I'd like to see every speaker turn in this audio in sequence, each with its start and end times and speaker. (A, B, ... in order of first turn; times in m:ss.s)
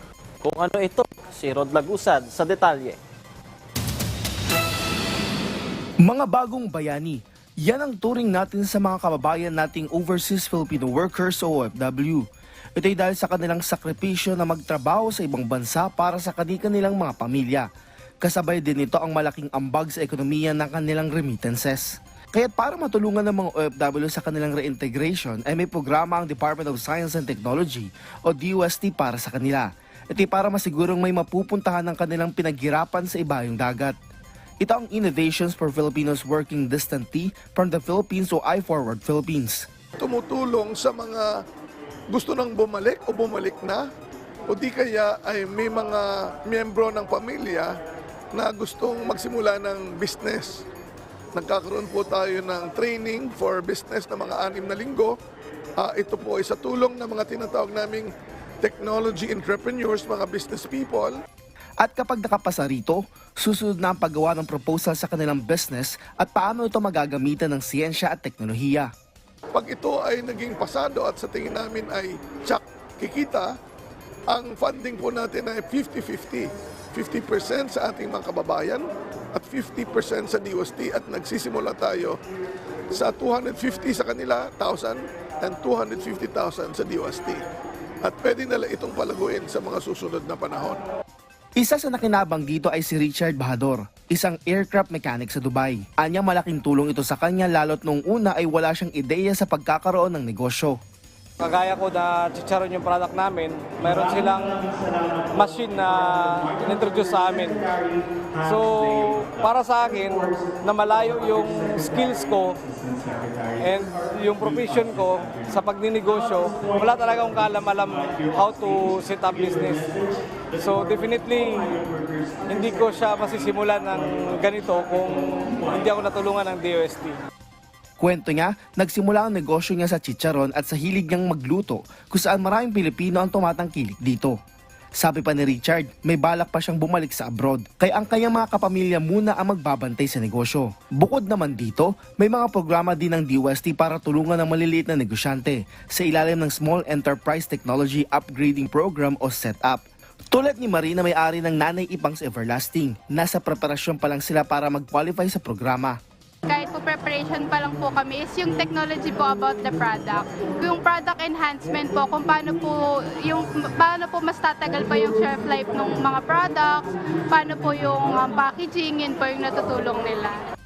0:00.4-0:03.0 A
0:06.0-0:12.2 B
0:12.8-0:17.6 B
0:18.2-0:34.0 B
0:34.6-0:39.6 B
0:40.0-0:41.3 C
0:42.1-0:43.8 C
0:44.5-0:47.7 C
0:48.3-0:50.6 C
0:51.3-0:55.1 C
0:55.8-0:58.1 C
0:58.6-1:01.1 C
1:01.8-1:08.9 B
1:09.5-1:13.5 C
1:14.3-1:22.2 C
1:22.9-1:27.4 C
1:28.0-1:30.8 C
1:31.6-1:40.8 B
1:41.4-1:47.7 D
1:48.4-1:52.6 D
1:53.6-2:00.0 D
2:00.5-2:01.8 D
2:02.4-2:07.2 D
2:08.0-2:14.4 B
2:15.0-2:36.0 B
2:36.4-2:50.4 E